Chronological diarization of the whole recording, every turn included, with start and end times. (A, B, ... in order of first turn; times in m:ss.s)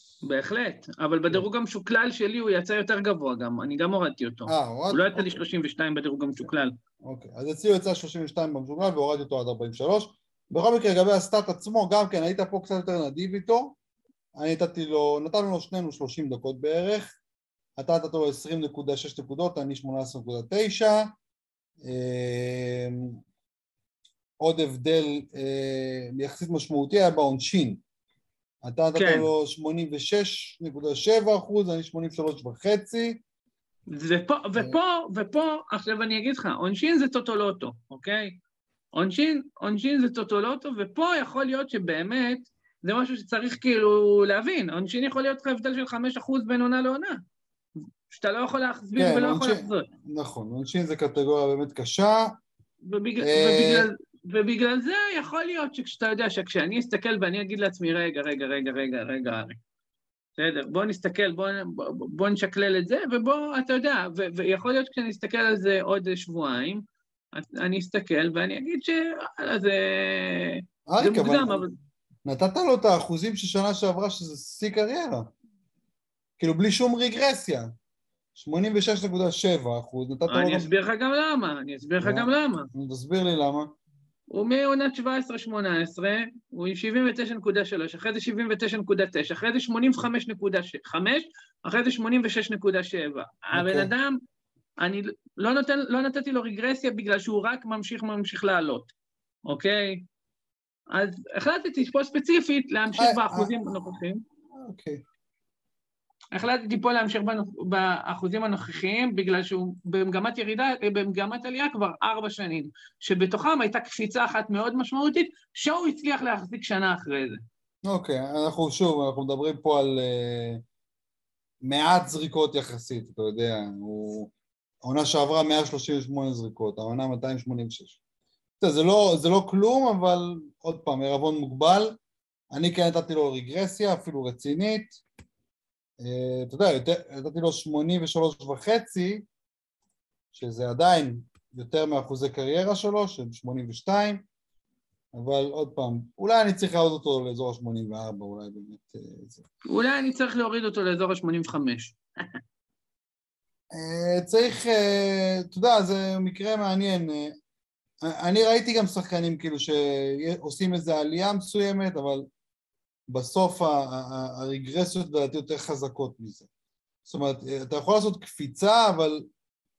0:00.2-0:06.7 A
0:04.5-0:05.4 B
0:07.0-0:13.8 B
0:14.3-0:17.1 B
0:17.8-0:21.2 B
0:21.8-0:23.2 B
0:24.4-0:27.8 B
0:28.6-0:33.2 B
0:29.0-0:29.3 A
0:33.9-0:38.4 A
0:38.9-0:47.2 A
0:48.1-0:49.9 A
0:49.0-0:52.4 B
0:52.8-0:59.6 A
0:53.2-0:53.9 B
1:00.4-1:06.8 A
1:07.3-1:11.7 A
1:10.9-1:11.6 B
1:12.2-1:15.3 B
1:16.4-1:17.7 B
1:18.3-1:20.7 B
1:20.3-1:22.7 A
1:22.0-1:23.7 B
1:24.3-1:34.2 A
1:33.5-1:33.9 B
1:34.8-1:38.9 A
1:39.5-1:40.0 A
1:40.9-1:44.2 A
1:43.0-1:44.0 B
1:44.5-1:45.0 B
1:46.3-1:57.4 A
1:57.8-2:00.6 B
2:01.6-2:04.3 B
2:04.8-2:08.0 B
2:08.6-2:12.0 B
2:12.5-2:15.0 B
2:16.0-2:19.3 B
2:20.3-2:24.2 B
2:25.1-2:29.5 B
2:29.7-2:32.0 A
2:33.7-2:37.4 B
2:38.0-2:42.3 B
2:43.1-2:46.5 B
2:47.0-2:49.3 B